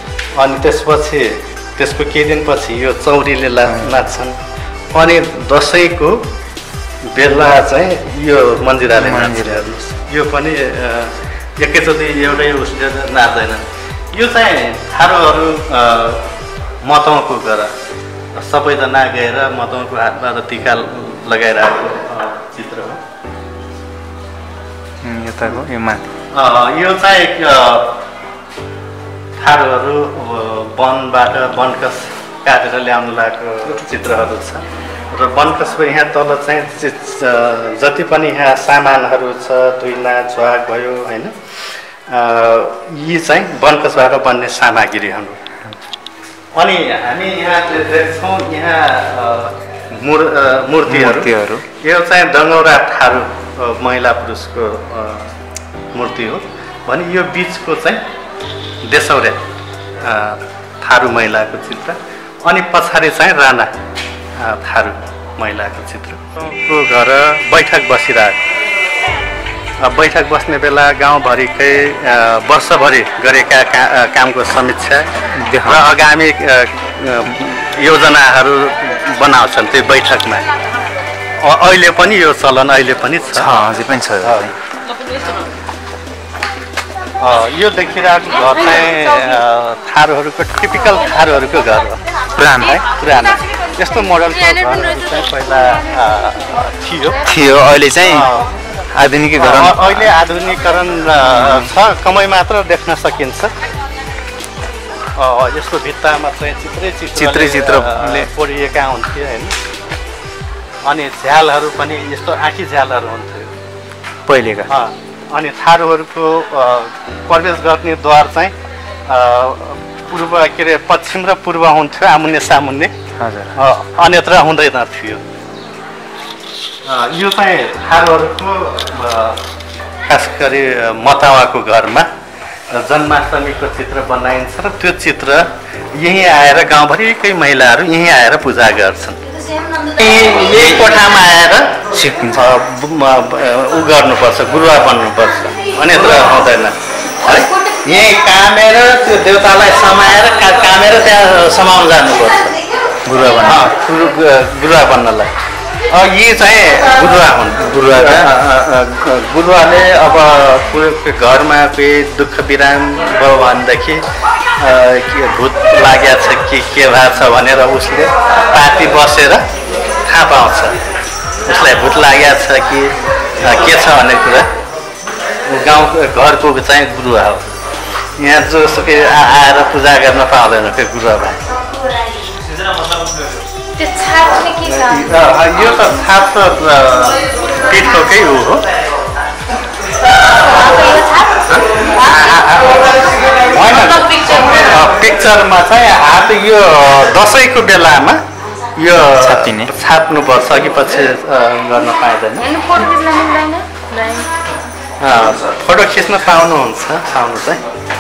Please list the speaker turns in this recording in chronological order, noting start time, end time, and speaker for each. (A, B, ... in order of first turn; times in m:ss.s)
0:00.4-0:04.4 A
0:03.7-0:04.1 B
0:04.9-0:06.3 A
0:07.0-0:16.2 A
0:09.0-0:09.9 B
0:16.8-0:17.7 A
0:18.3-0:23.0 A
0:25.0-0:26.1 B
0:26.3-0:28.0 A
0:29.4-0:45.4 A
0:46.5-0:55.3 A
0:50.9-0:51.6 B
0:55.9-0:58.0 A
0:58.8-0:59.4 A
1:00.0-1:03.8 A
1:04.4-1:08.4 A
1:09.8-1:15.1 A
1:15.3-1:15.9 B
1:15.6-1:20.5 A
1:21.4-1:23.5 A
1:23.4-1:24.6 B
1:24.2-1:24.5 A
1:27.2-1:32.0 A
1:32.4-1:32.8 B
1:32.6-1:37.3 A
1:37.2-1:38.3 B
1:38.0-1:38.5 A
1:39.0-1:40.1 B
1:39.4-1:43.5 A
1:41.2-1:41.7 B
1:45.2-1:49.6 A
1:47.2-1:48.3 B
1:50.8-1:53.6 A
1:54.3-1:54.7 B
1:54.7-1:58.5 A
1:59.1-2:02.9 A
2:03.2-2:03.6 B
2:03.5-2:05.2 A
2:06.8-2:09.4 A
2:10.0-2:12.1 A
2:12.7-2:19.2 A
2:19.8-2:21.8 A
2:21.9-2:22.5 B
2:22.3-2:32.6 A
2:27.4-2:27.8 C
2:33.0-2:33.7 B
2:33.3-2:35.3 A
2:35.9-2:44.0 A
2:37.6-2:38.3 B
2:44.6-2:49.5 A
2:50.0-2:50.8 A
2:51.4-2:54.5 A
2:55.4-2:57.6 A
2:58.2-3:01.4 A
3:03.8-3:05.9 C
3:04.6-3:08.7 A
3:10.3-3:12.2 C
3:11.5-3:18.2 A
3:13.8-3:14.4 C
3:18.8-3:22.5 A
3:19.1-3:19.7 B
3:22.4-3:24.3 C
3:25.0-3:27.6 A